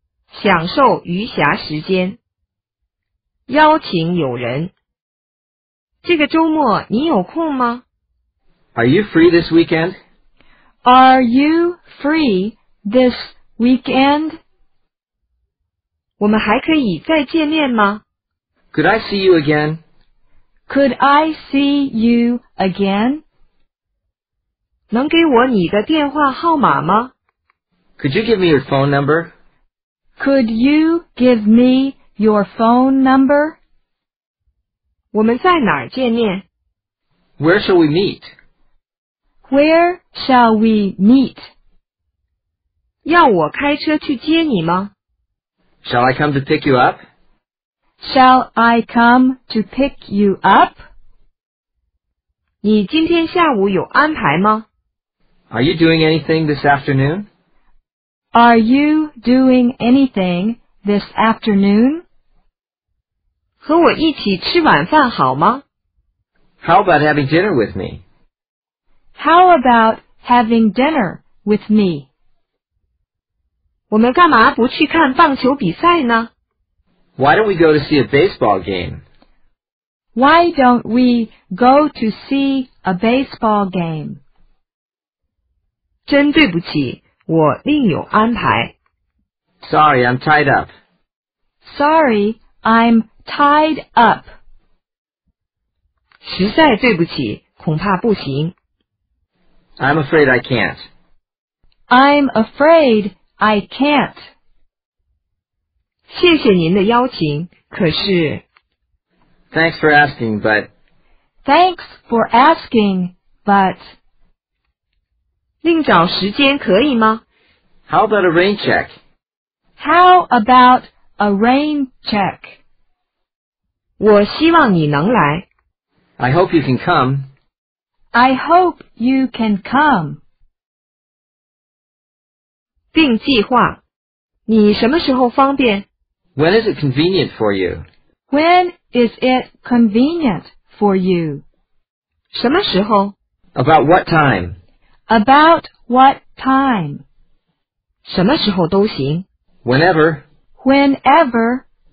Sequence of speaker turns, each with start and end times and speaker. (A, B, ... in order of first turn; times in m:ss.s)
0:00.3-0:02.2 A
0:03.5-0:04.7 A
0:06.0-0:07.8 A
0:08.7-0:10.0 B
0:10.8-0:14.4 C
0:16.2-0:18.0 A
0:18.7-0:19.8 B
0:20.7-0:23.2 C
0:24.9-0:27.1 A
0:28.0-0:29.3 B
0:30.2-0:33.6 C
0:35.1-0:36.4 A
0:37.4-0:38.3 B
0:39.5-0:41.5 C
0:43.0-0:44.9 A
0:45.8-0:47.0 B
0:48.0-0:50.8 C
0:52.6-0:54.6 A
0:55.5-0:57.3 B
0:58.3-1:02.0 C
1:03.6-1:05.6 A
1:06.6-1:08.0 B
1:09.2-1:12.1 C
1:13.9-1:16.3 A
1:17.2-1:19.0 B
1:20.1-1:24.2 C
1:26.1-1:28.7 A
1:29.6-1:30.7 B
1:31.6-1:34.3 C
1:36.2-1:38.5 A
1:39.8-1:40.8 B
1:41.9-1:44.2 C
1:46.1-1:48.4 A
1:49.5-1:50.7 B
1:51.4-1:53.8 C
1:55.6-1:57.2 A
1:57.9-1:58.9 B
1:59.8-2:02.6 C
2:04.0-2:05.4 A
2:06.2-2:07.3 B
2:08.1-2:10.2 C
2:12.9-2:13.8 A
2:14.5-2:15.8 A
2:16.4-2:17.8 B
2:18.3-2:21.4 C
2:22.3-2:23.1 A
2:23.5-2:24.6 B
2:25.1-2:27.0 C
2:28.0-2:29.2 A
2:29.6-2:30.2 B
2:30.6-2:31.6 C